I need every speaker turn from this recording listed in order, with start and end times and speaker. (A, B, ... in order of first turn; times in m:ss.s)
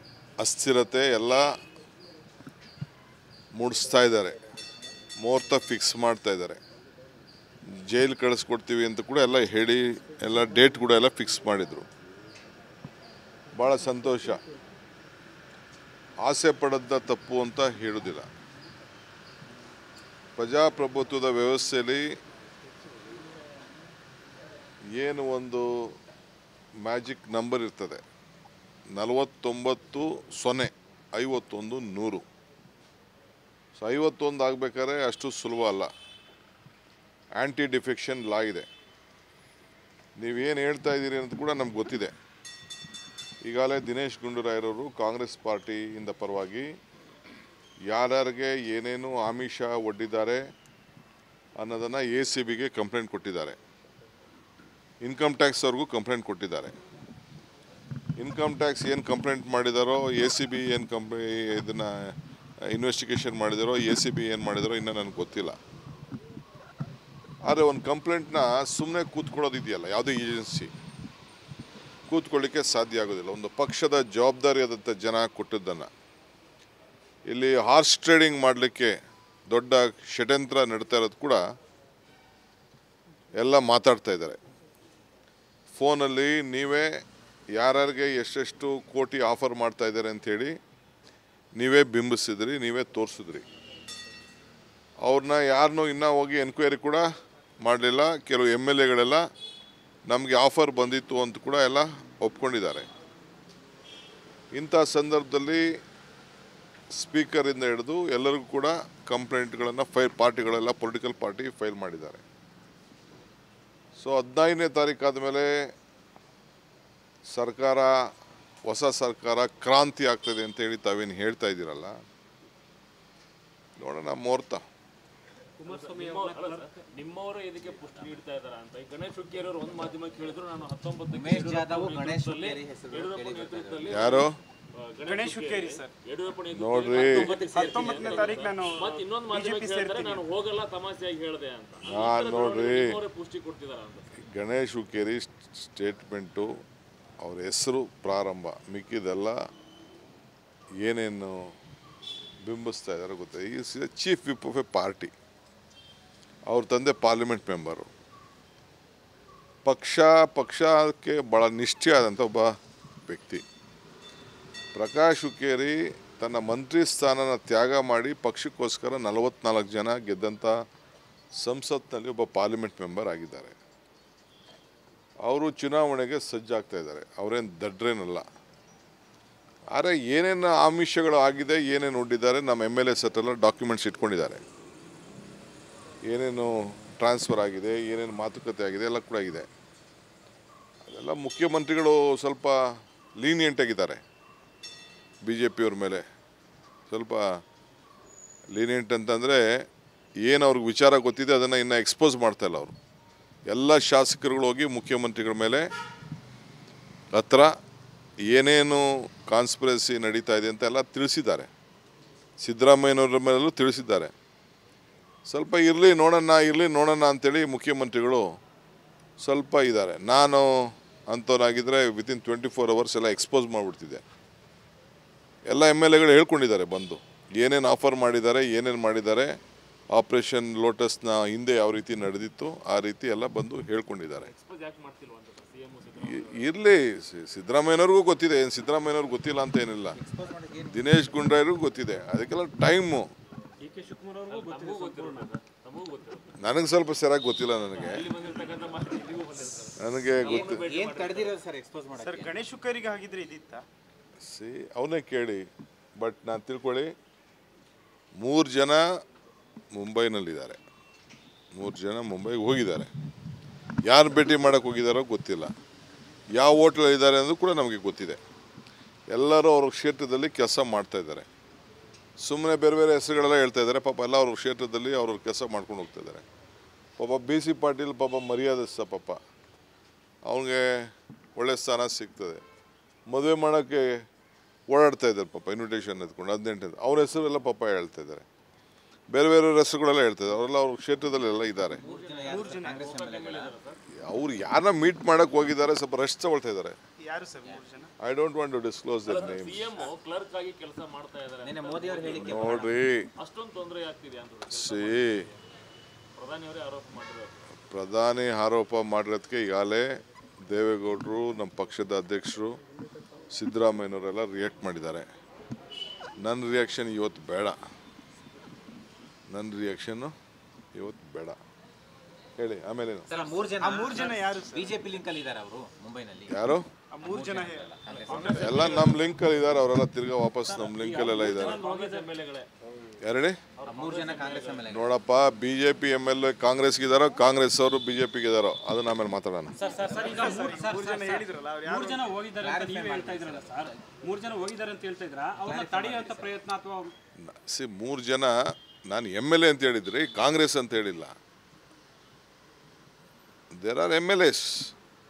0:00.4-0:01.5 A
0:03.6-0:04.4 A
0:05.2-0:06.6 A
0:07.7-0:11.9 A
0:13.6-0:14.4 A
0:16.2-0:18.3 A
0:20.4-0:22.1 A
0:25.0-0:25.7 A
0:26.8-0:28.0 A
0:29.0-0:32.2 A
0:33.8-0:35.9 A
0:37.4-0:38.7 A
0:40.2-0:42.1 A
0:43.4-0:46.7 A
0:47.9-0:50.4 A
0:51.6-0:53.6 A
0:55.0-0:56.7 A
0:58.2-1:05.6 A
1:07.5-1:10.7 A
1:12.1-1:15.9 A
1:17.3-1:19.0 A
1:19.5-1:21.4 A
1:23.4-1:24.4 A
1:25.7-1:27.0 A
1:27.6-1:30.5 A
1:31.6-1:33.4 A
1:35.0-1:37.1 A
1:37.6-1:39.2 A
1:40.1-1:42.9 A
1:44.5-1:45.6 A
1:47.0-1:52.2 A
1:54.0-1:55.6 A
1:57.3-1:58.0 A
1:58.7-2:02.0 A
2:03.8-2:04.6 A
2:05.6-2:06.6 B
2:05.6-2:14.3 C
2:11.1-2:14.2 D
2:13.9-2:14.4 A
2:14.8-2:24.1 C
2:15.0-2:15.9 E
2:16.5-2:17.3 A
2:17.2-2:20.2 E
2:21.8-2:23.0 A
2:24.2-2:26.5 A
2:27.2-2:29.4 A
2:30.8-2:31.5 A
2:32.4-2:35.1 A
2:36.5-2:37.9 A
2:39.6-2:42.5 A
2:43.1-2:43.4 A
2:44.8-2:50.5 A
2:51.4-2:53.6 A
2:55.2-2:58.2 A
2:59.7-3:04.4 A
3:06.1-3:09.5 A
3:10.9-3:12.6 A
3:13.2-3:14.0 A
3:15.3-3:16.0 A
3:16.9-3:17.2 A
3:18.6-3:19.4 A
3:20.3-3:22.8 A
3:23.5-3:25.7 A
3:27.1-3:27.5 A
3:28.3-3:31.5 A
3:32.4-3:34.1 A
3:35.3-3:38.2 A
3:39.2-3:40.5 A
3:41.1-3:44.0 A
3:45.5-3:49.3 A
3:49.9-3:54.3 A
3:54.2-3:56.6 C
3:56.0-4:00.0 A
4:00.0-4:01.5 D
4:00.7-4:03.1 A
4:03.6-4:05.3 B
4:04.3-4:06.3 C
4:06.4-4:08.1 A
4:07.7-4:11.4 C
4:09.8-4:10.6 A
4:10.2-4:12.4 D
4:11.9-4:13.6 E
4:14.2-4:15.5 A
4:16.0-4:16.9 A
4:18.2-4:18.8 A
4:19.7-4:20.6 A
4:21.5-4:22.9 A
4:23.9-4:25.5 A
4:26.4-4:28.2 A
4:29.1-4:31.3 A
4:32.2-4:36.2 A
4:37.0-4:39.2 A
4:40.3-4:42.4 A
4:43.1-4:43.9 A
4:44.7-4:48.2 A
4:49.1-4:51.8 A
4:51.7-4:53.5 D
4:51.8-4:53.8 C
4:52.2-4:53.0 E
4:54.0-4:56.8 A
4:57.0-4:57.9 E
4:58.0-4:59.7 A
4:59.0-5:05.4 C
5:01.4-5:02.8 D
5:02.1-5:03.1 A
5:04.5-5:05.2 A
5:06.2-5:07.4 C
5:07.7-5:09.9 A
5:10.5-5:12.6 A
5:13.3-5:15.1 A
5:16.2-5:17.6 A
5:19.3-5:20.1 A
5:20.7-5:21.4 A
5:22.4-5:23.1 A
5:23.1-5:26.4 D
5:23.5-5:24.8 E
5:26.3-5:26.7 A
5:26.9-5:28.9 E
5:27.0-5:28.4 D
5:27.8-5:29.0 C
5:28.3-5:31.6 A
5:30.4-5:32.1 B
5:31.2-5:32.5 C
5:33.0-5:33.4 A
5:33.6-5:34.7 C
5:33.6-5:34.9 D
5:34.7-5:39.6 A
5:39.6-5:46.9 B
5:39.7-5:42.2 E
5:42.4-5:44.0 D
5:45.3-5:46.4 D
5:47.2-5:48.4 A
5:48.9-5:51.1 A
5:53.5-5:54.7 A